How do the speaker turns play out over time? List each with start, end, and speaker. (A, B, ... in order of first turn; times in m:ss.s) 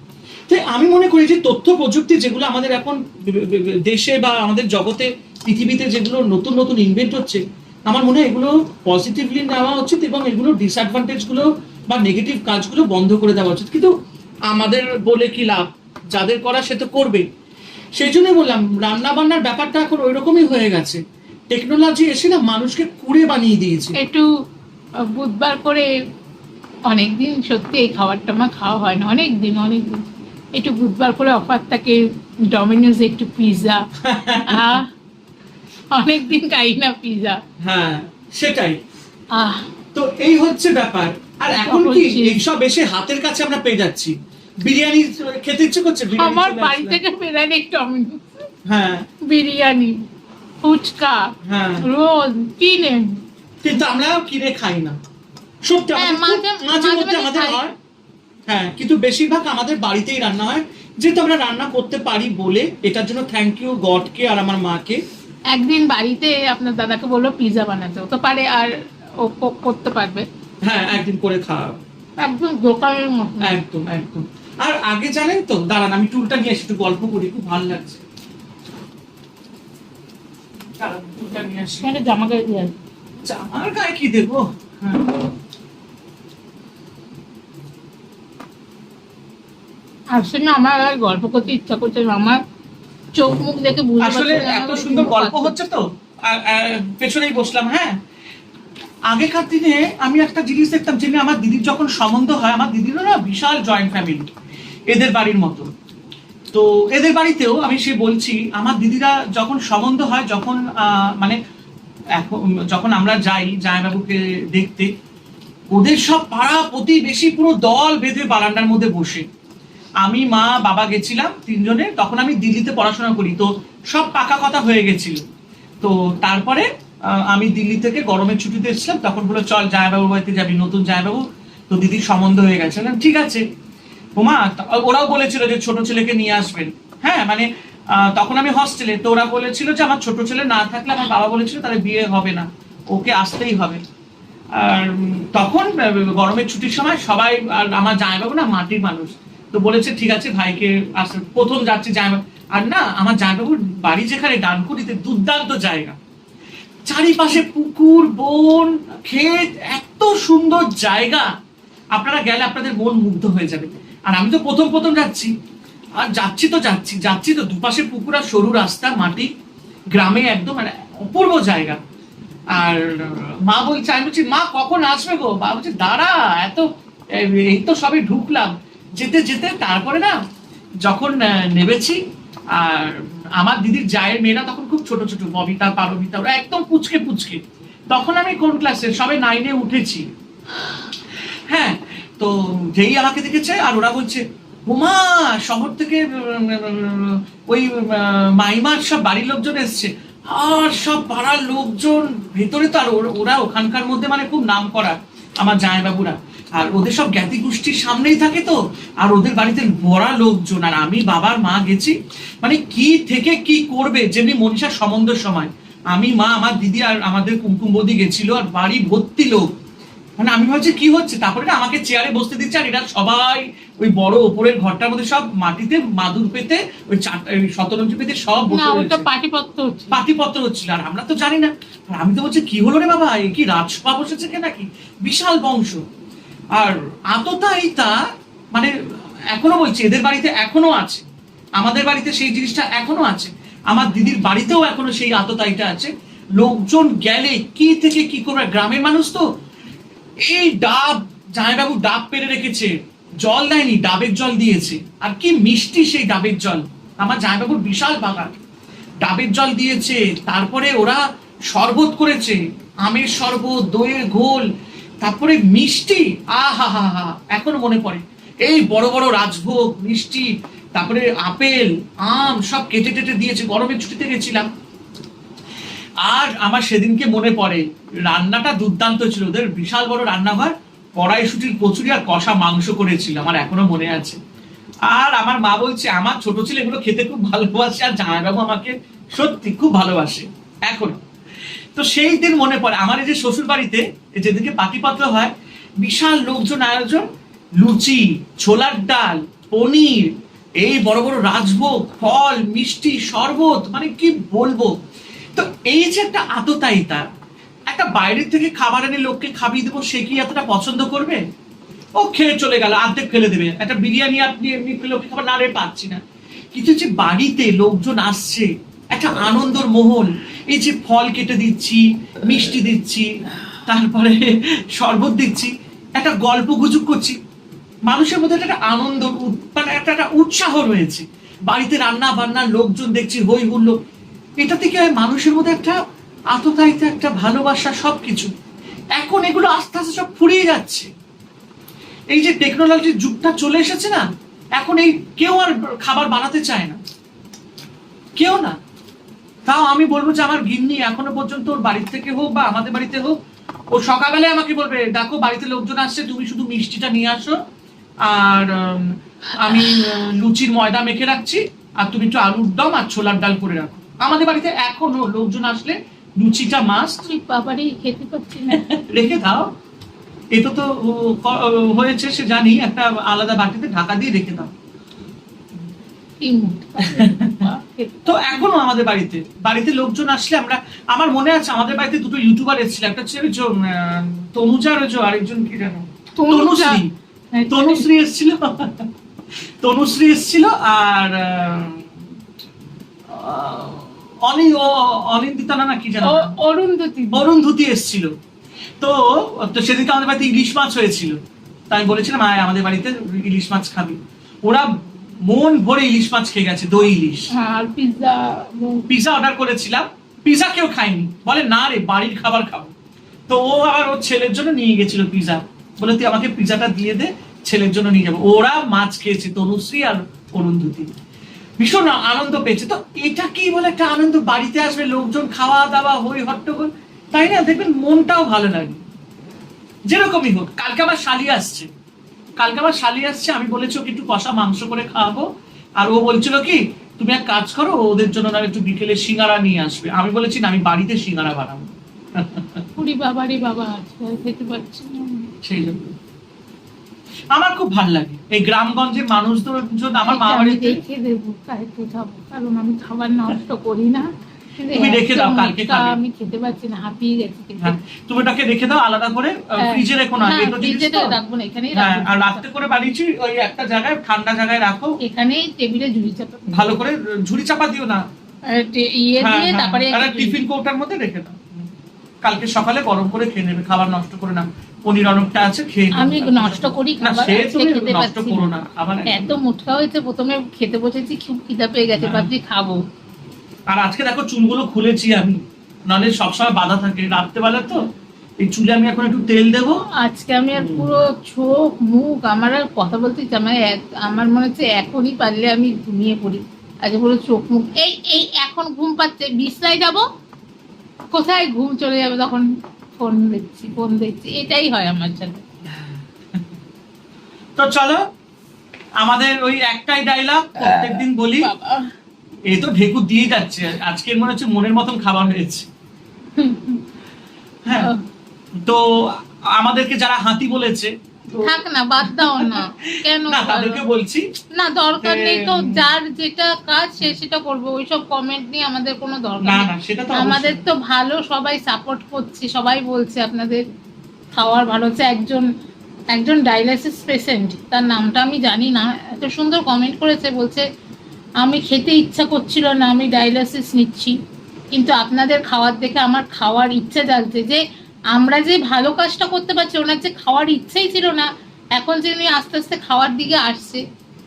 0:00.5-0:13.9 A
0:14.5-0:17.2 A
0:18.0-0:24.0 A
0:24.0-0:24.2 B
0:25.1-0:25.9 B
0:26.9-0:32.0 B
0:32.5-0:33.8 B
0:34.0-0:34.8 A
0:34.4-0:34.9 B
0:35.9-0:37.4 B
0:37.6-0:38.8 A
0:39.4-0:39.6 B
0:39.9-0:47.0 A
0:41.5-0:42.4 B
0:46.1-0:48.2 B
0:48.7-0:49.0 A
0:49.3-0:50.0 B
0:50.6-0:51.2 B
0:51.4-0:51.8 A
0:51.8-0:53.2 B
0:53.6-0:55.0 A
0:55.6-0:57.7 A
0:55.9-0:57.6 B
0:58.5-1:05.0 A
1:05.5-1:10.2 B
1:10.6-1:11.8 A
1:12.2-1:13.6 B
1:13.4-1:18.0 A
1:20.8-1:21.8 A
1:21.8-1:22.8 B
1:23.2-1:25.1 A
1:30.1-1:32.4 B
1:33.1-1:35.5 B
1:34.0-1:38.0 A
1:39.1-1:44.3 A
1:44.9-1:45.7 A
1:46.5-1:51.4 A
1:52.2-1:54.9 A
1:55.7-1:59.2 A
2:00.0-2:05.2 A
2:05.8-2:13.4 A
2:14.2-2:23.8 A
2:24.6-2:36.0 A
2:36.8-2:41.3 A
2:41.9-2:45.3 A
2:46.0-2:49.3 A
2:50.0-2:51.8 A
2:52.5-3:00.2 A
3:00.8-3:02.0 A
3:02.5-3:10.0 A
3:11.5-3:39.5 A
3:40.2-3:49.1 A
3:48.5-3:50.0 B
3:49.9-3:55.8 A
3:56.5-3:58.0 A
3:59.3-4:01.0 A
4:01.6-4:09.2 A
4:10.2-4:18.4 A
4:19.0-4:21.0 A
4:21.5-4:24.5 A
4:25.0-4:34.5 A
4:36.0-4:44.2 A
4:44.9-4:51.0 A
4:51.7-4:57.0 A
4:57.6-5:04.7 A
5:05.3-5:07.1 A
5:07.7-5:11.2 A
5:12.0-5:16.0 A
5:16.5-5:23.1 A
5:23.6-5:27.2 A
5:27.9-5:33.8 A
5:34.4-5:35.8 A
5:36.3-5:38.3 A
5:39.0-5:40.9 A
5:42.1-5:44.0 A
5:44.6-5:46.8 A
5:48.2-5:48.6 A
5:49.4-5:53.2 A
5:53.7-5:57.4 A
5:58.0-6:07.1 A
6:07.1-6:08.7 B
6:08.5-6:09.5 A
6:10.3-6:14.5 A
6:16.2-6:18.5 B
6:16.8-6:17.5 A
6:18.0-6:26.9 A
6:26.2-6:26.8 B
6:27.3-6:27.8 B
6:27.5-6:28.9 A
6:29.6-6:31.9 A
6:33.1-6:36.4 A
6:36.0-6:37.3 B
6:37.1-6:38.1 A
6:38.8-6:41.2 A
6:41.7-6:44.7 A
6:45.2-6:47.3 A
6:47.3-6:48.9 B
6:48.9-6:52.7 A
6:53.3-7:00.9 A
7:01.6-7:08.8 A
7:09.9-7:11.7 A
7:12.4-7:22.6 A
7:22.8-7:25.3 B
7:25.4-7:25.9 A
7:27.3-7:30.8 A
7:30.0-7:37.8 B
7:34.7-7:36.0 A
7:37.6-7:41.2 A
7:39.6-7:42.4 B
7:41.7-7:45.0 A
7:45.0-7:46.8 B
7:46.5-7:48.0 A
7:48.5-7:50.4 B
7:49.2-7:51.6 A
7:52.2-7:59.3 A
7:55.9-7:58.5 B
7:59.1-8:02.8 B
8:02.0-8:02.3 A
8:03.7-8:07.8 A
8:08.4-8:09.8 A
8:10.0-8:20.0 B
8:10.5-8:11.0 A
8:21.1-8:25.4 B
8:27.6-8:28.0 A
8:29.0-8:31.5 A
8:30.6-8:31.9 B
8:32.5-8:35.7 A
8:36.4-8:36.8 B
8:37.6-8:37.9 A
8:37.7-8:38.0 B
8:38.6-8:44.2 A
8:41.4-8:43.8 B
8:44.5-8:53.6 B
8:45.0-8:45.9 A
8:49.4-8:50.6 A
8:54.4-8:55.4 B
8:56.1-9:00.6 B
9:01.4-9:04.1 B
9:04.7-9:07.6 B
9:08.1-9:13.8 B